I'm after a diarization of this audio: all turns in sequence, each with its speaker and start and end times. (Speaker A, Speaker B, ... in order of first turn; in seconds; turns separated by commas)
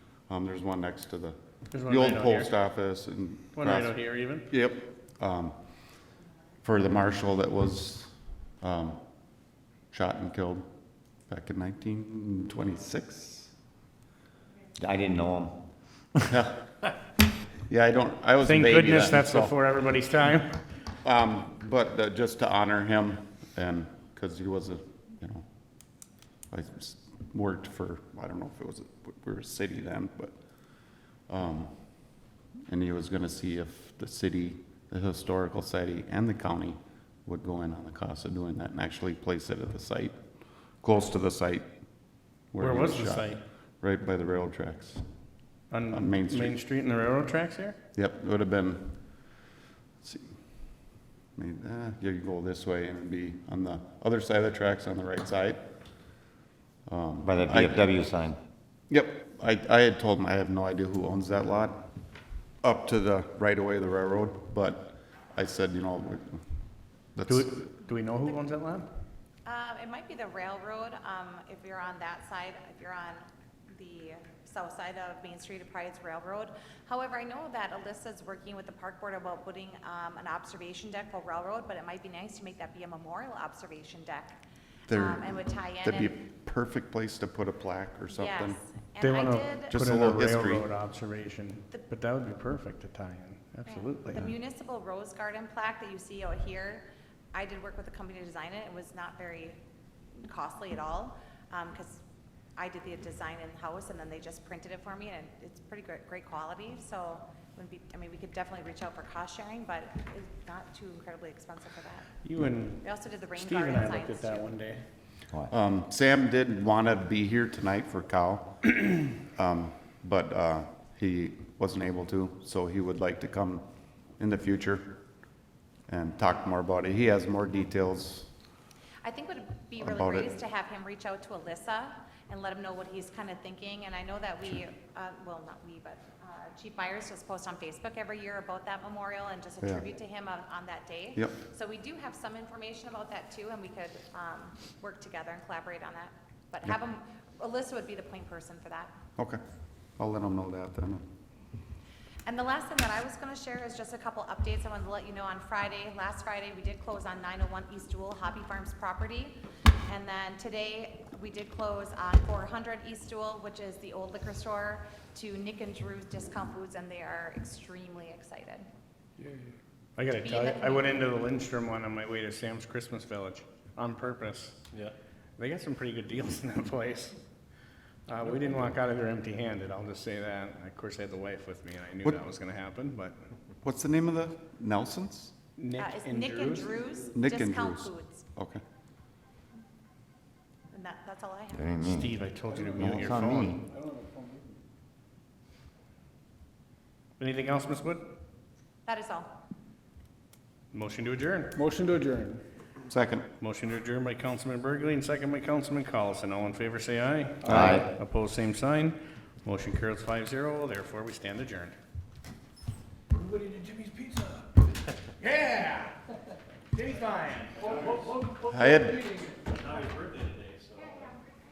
Speaker A: 0.3-5.6, Speaker B: 1.7-2.5, Speaker B: 3.6-4.5, Speaker A: 6.6-9.0, Speaker A: 9.9-10.7, Speaker A: 11.3-13.5, Speaker C: 14.8-15.6, Speaker A: 16.3-16.7, Speaker A: 17.7-19.6, Speaker B: 18.4-20.6, Speaker A: 21.0-25.5, Speaker A: 26.5-30.4, Speaker A: 31.3-31.9, Speaker A: 32.7-40.2, Speaker A: 40.8-41.7, Speaker A: 42.5-45.0, Speaker B: 42.6-43.4, Speaker B: 45.7-47.8, Speaker A: 45.9-46.6, Speaker A: 48.0-49.0, Speaker A: 50.0-50.4, Speaker A: 51.4-55.6, Speaker A: 56.9-58.0, Speaker C: 57.2-58.4, Speaker A: 58.9-61.9, Speaker A: 62.6-66.4, Speaker A: 67.2-67.6, Speaker B: 67.3-68.9, Speaker D: 69.5-84.4, Speaker A: 84.9-88.6, Speaker D: 84.9-86.2, Speaker D: 88.1-89.8, Speaker B: 89.0-94.2, Speaker A: 89.7-90.7, Speaker D: 93.7-99.6, Speaker D: 100.2-102.0, Speaker D: 102.6-112.2, Speaker B: 112.2-114.8, Speaker D: 112.8-114.5, Speaker A: 115.5-118.6, Speaker A: 119.2-123.6, Speaker A: 124.2-124.9, Speaker A: 125.9-128.3, Speaker D: 129.0-148.9, Speaker A: 129.8-130.3, Speaker A: 150.0-151.1, Speaker D: 152.3-168.7, Speaker E: 169.2-169.5, Speaker B: 170.0-174.6, Speaker D: 170.2-171.1, Speaker B: 175.4-177.2, Speaker B: 178.1-183.2, Speaker A: 183.6-185.3, Speaker B: 185.6-186.8, Speaker D: 185.8-188.3, Speaker A: 187.1-188.6, Speaker D: 190.7-191.7, Speaker C: 191.5-192.1, Speaker B: 191.8-193.6, Speaker A: 192.8-193.4, Speaker C: 192.9-193.7, Speaker B: 197.2-198.1, Speaker D: 198.9-199.3, Speaker B: 200.7-202.3, Speaker A: 202.9-203.3, Speaker B: 203.4-211.8, Speaker A: 207.4-207.8, Speaker C: 207.4-207.9, Speaker E: 213.5-214.2, Speaker E: 215.3-215.8, Speaker B: 215.3-215.8, Speaker B: 216.9-217.5, Speaker E: 217.0-221.1, Speaker A: 218.4-219.2